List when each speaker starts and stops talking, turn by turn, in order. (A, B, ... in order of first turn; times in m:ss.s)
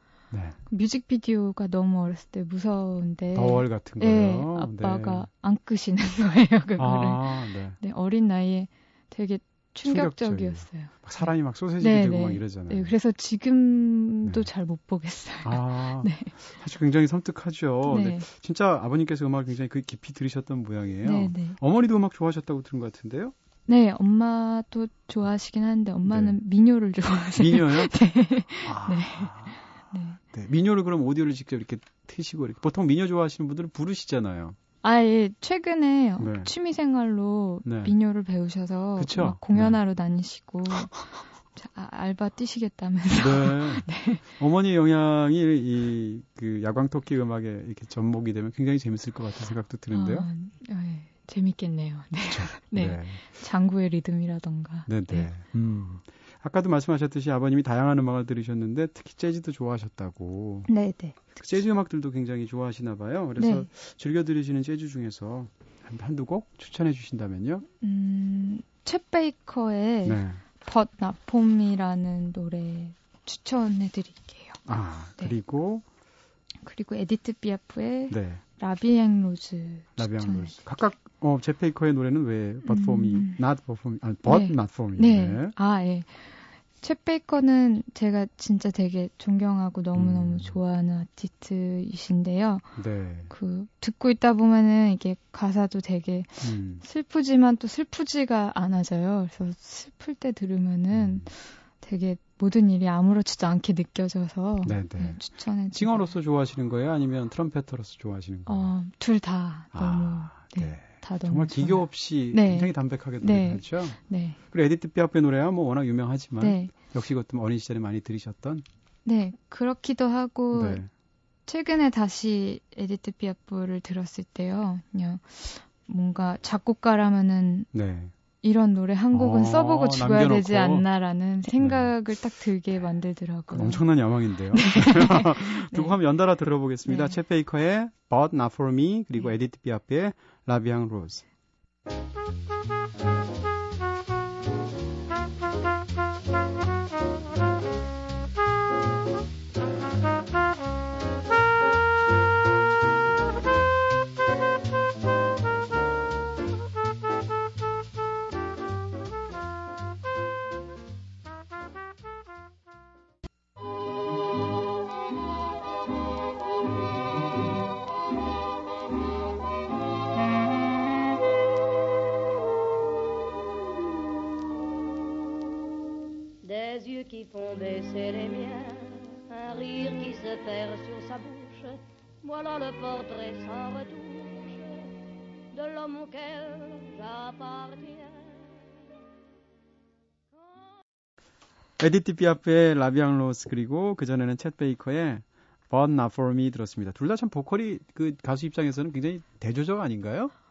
0:00.3-0:00.6 A
0:00.7-0:16.3 B
0:03.4-0:05.3 A
0:06.8-0:07.8 A
0:09.8-0:13.0 A
0:15.4-0:23.3 A
0:17.9-0:18.3 B
0:21.0-0:21.6 B
0:23.7-0:30.2 B
0:26.1-0:26.4 A
0:27.4-0:27.9 A
0:28.6-0:29.6 A
0:30.2-0:34.6 A
0:34.8-0:41.0 B
0:36.2-0:36.5 A
0:37.6-0:37.9 A
0:39.0-0:39.8 A
0:41.6-0:44.2 B
0:43.2-0:50.3 A
0:49.9-0:55.3 B
0:52.3-0:53.2 A
0:54.9-1:00.7 A
1:00.7-1:01.2 B
1:01.3-1:07.7 A
1:03.4-1:03.7 B
1:07.8-1:14.6 B
1:10.0-1:10.4 A
1:14.7-1:15.8 A
1:16.6-1:20.6 B
1:18.1-1:18.4 A
1:20.0-1:25.6 A
1:22.6-1:23.4 B
1:24.3-1:26.3 B
1:26.8-1:32.7 B
1:30.0-1:30.6 A
1:32.8-1:33.3 A
1:33.3-1:46.2 B
1:36.4-1:36.8 A
1:40.9-1:41.3 A
1:44.6-1:45.2 A
1:45.7-1:48.7 A
1:48.5-1:54.4 B
1:49.7-1:54.0 A
1:54.5-1:58.6 A
1:56.4-1:56.7 B
1:59.1-2:00.8 B
2:00.5-2:00.9 A
2:01.5-2:07.7 B
2:07.7-2:08.1 A
2:08.4-2:13.8 B
2:09.1-2:10.8 A
2:11.6-2:11.9 A
2:13.5-2:21.3 A
2:14.6-2:16.0 B
2:16.9-2:17.2 B
2:56.4-3:04.8 C
3:05.5-3:08.5 C
3:10.4-3:10.6 C
3:11.8-3:20.3 A